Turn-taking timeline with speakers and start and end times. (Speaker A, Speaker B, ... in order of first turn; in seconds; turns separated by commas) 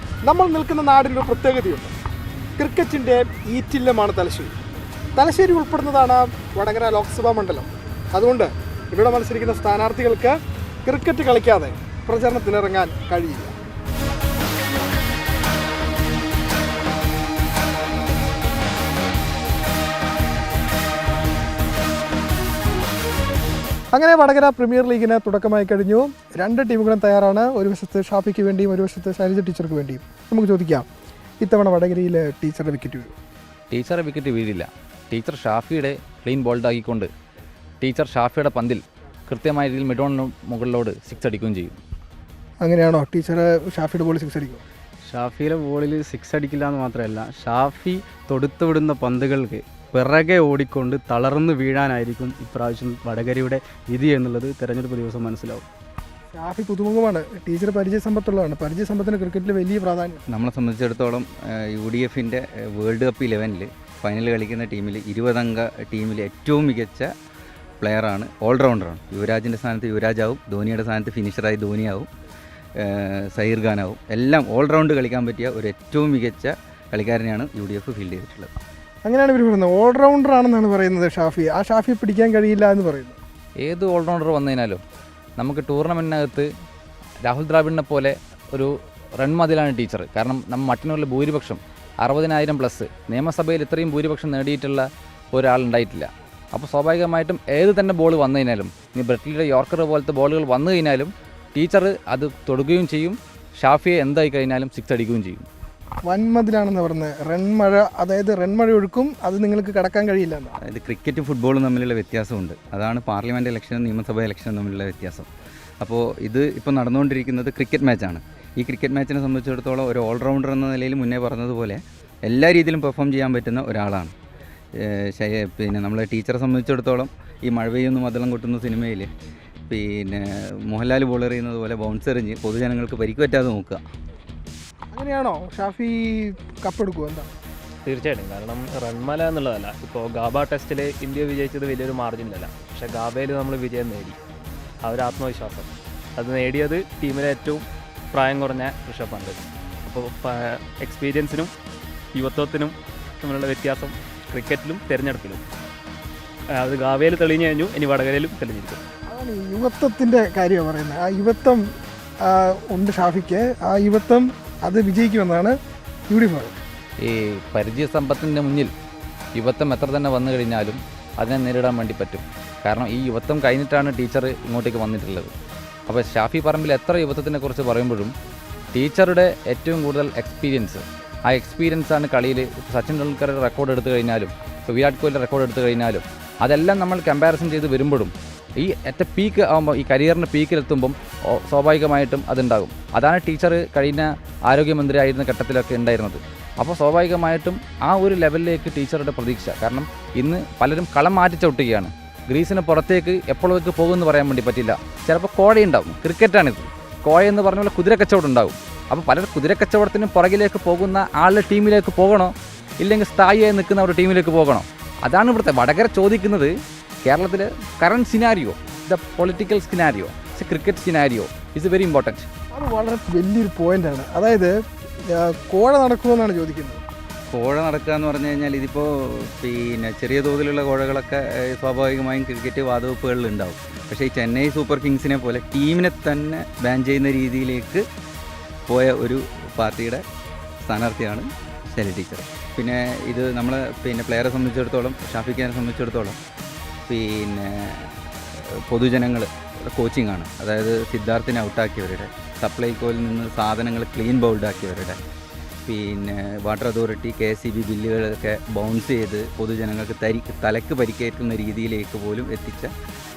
Speaker A: 0.2-1.9, Speaker A: 2.6-4.5, Speaker A: 5.2-13.5, Speaker A: 23.9-30.9, Speaker A: 31.4-33.1, Speaker B: 33.7-37.1, Speaker B: 37.8-41.8, Speaker A: 42.6-44.6, Speaker C: 45.1-55.6, Speaker A: 56.3-60.2, Speaker D: 60.3-67.1, Speaker D: 67.8-72.1, Speaker D: 72.8-78.5, Speaker A: 79.0-83.2, Speaker B: 83.6-84.8, Speaker B: 85.4-86.5, Speaker B: 87.2-105.5, Speaker A: 106.0-110.6, Speaker D: 110.6-115.3, Speaker D: 115.8-124.1, Speaker D: 124.8-129.1, Speaker D: 129.7-133.8, Speaker A: 134.9-137.3, Speaker E: 137.8-144.2, Speaker E: 144.8-151.5, Speaker E: 152.1-155.4, Speaker E: 156.5-158.8, Speaker A: 159.1-161.6, Speaker A: 162.2-165.5, Speaker A: 166.1-166.5, Speaker B: 167.0-168.7, Speaker B: 169.3-175.3, Speaker B: 175.9-178.1, Speaker B: 178.7-216.5, Speaker B: 217.0-222.3, Speaker A: 222.5-224.5, Speaker A: 225.1-226.8, Speaker D: 227.3-237.8, Speaker D: 238.7-240.0, Speaker D: 240.6-246.2, Speaker D: 246.9-255.0, Speaker D: 255.7-262.7